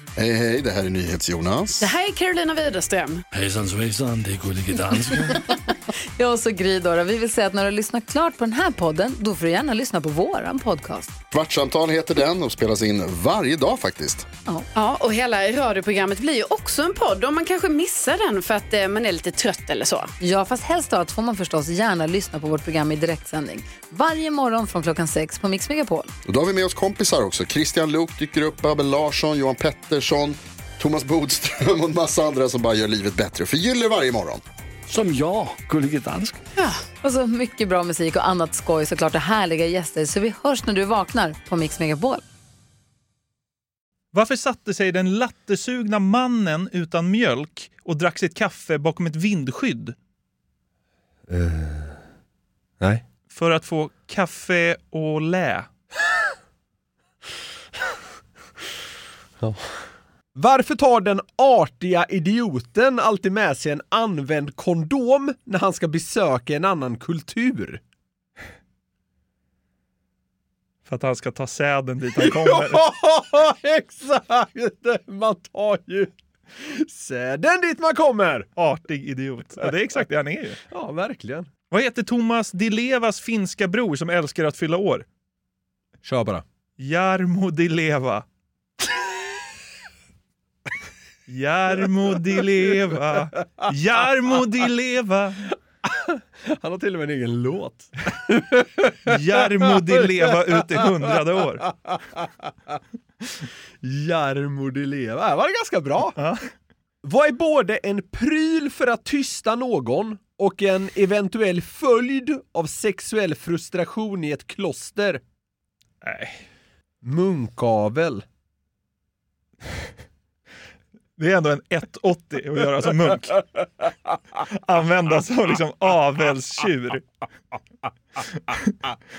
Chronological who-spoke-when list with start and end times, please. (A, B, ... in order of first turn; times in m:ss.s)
0:00.2-0:01.9 A
0:01.8-0:03.2 B
0:03.3-0:05.4 C
0:06.2-0:11.2 D
0:11.3-0:14.3 A
0:14.7-0:20.1 B
0:20.2-0:26.1 D
0:26.2-0:34.4 A
0:34.9-0:36.4 C
0:36.6-0:42.2 D
0:44.1-0:49.9 E
0:51.3-0:51.7 F
0:53.3-0:55.7 E
1:00.4-1:07.8 F
1:10.8-1:12.8 E
1:12.2-1:18.5 F
1:18.6-1:20.6 E
1:20.7-1:21.5 F
1:21.7-1:25.0 E
1:26.0-1:26.4 F
1:26.8-1:28.2 E
1:31.3-1:35.5 E
1:35.8-1:41.1 F
1:39.0-1:41.6 E
1:41.6-1:42.2 F
1:43.8-1:46.2 F
1:46.2-1:46.5 E
1:47.0-1:55.2 F
1:56.0-1:56.4 E
1:57.0-1:58.2 F
2:01.2-2:03.4 E
2:04.5-2:07.0 E